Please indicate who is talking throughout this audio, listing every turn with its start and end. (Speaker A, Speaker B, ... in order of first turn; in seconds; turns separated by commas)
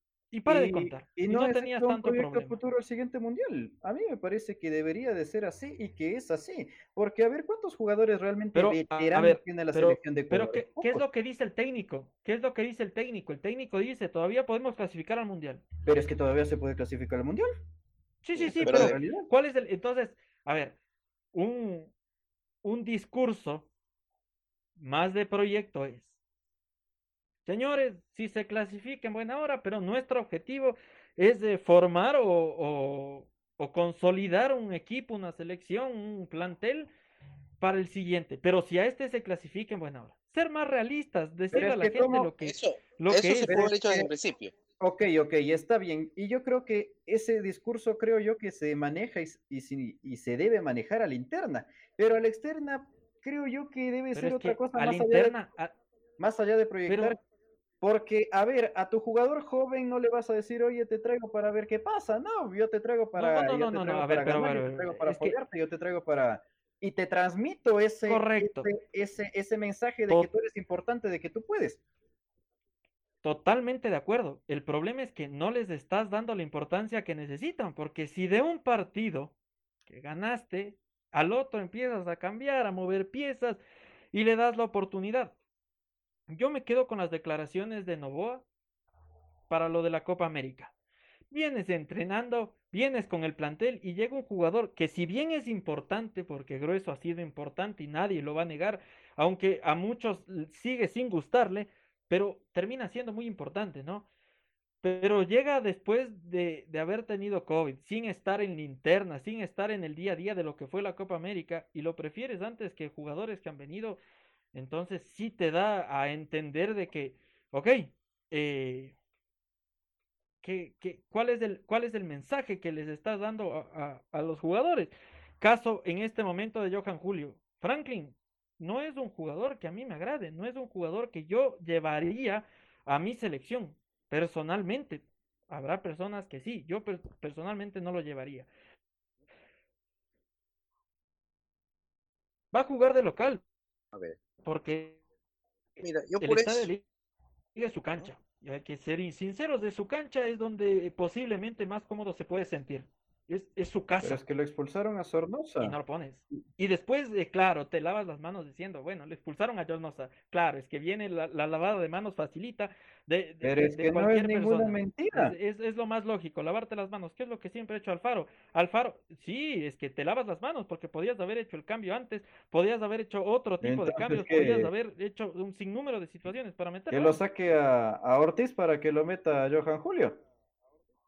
Speaker A: 0.3-2.6, Speaker B: 0.5-11.0, Speaker A: 8.5-15.7, Speaker B: 15.8-17.5, Speaker A: 18.2-20.8, Speaker B: 18.4-19.3, Speaker C: 18.6-18.9, Speaker A: 21.3-21.9, Speaker A: 22.6-23.7, Speaker A: 24.8-26.1, Speaker A: 27.4-36.9, Speaker A: 37.6-43.6, Speaker B: 41.5-42.3, Speaker C: 42.4-44.5, Speaker B: 43.5-44.1, Speaker B: 44.8-55.3, Speaker A: 54.1-55.8, Speaker B: 56.2-57.2, Speaker A: 56.9-57.1, Speaker B: 57.8-71.8, Speaker A: 63.1-65.4, Speaker A: 68.0-68.7, Speaker A: 73.2-79.3, Speaker A: 79.9-83.6, Speaker A: 84.1-85.3, Speaker A: 86.3-88.5, Speaker A: 89.5-90.7, Speaker A: 91.3-104.1, Speaker A: 104.8-114.0, Speaker A: 114.5-118.9, Speaker A: 120.4-138.5, Speaker A: 142.5-143.4, Speaker A: 144.4-145.0, Speaker C: 145.8-146.7, Speaker A: 146.2-146.8, Speaker A: 147.5-154.2, Speaker B: 154.0-155.8, Speaker A: 155.6-177.2, Speaker B: 163.4-165.3, Speaker B: 173.6-174.7, Speaker B: 176.9-180.2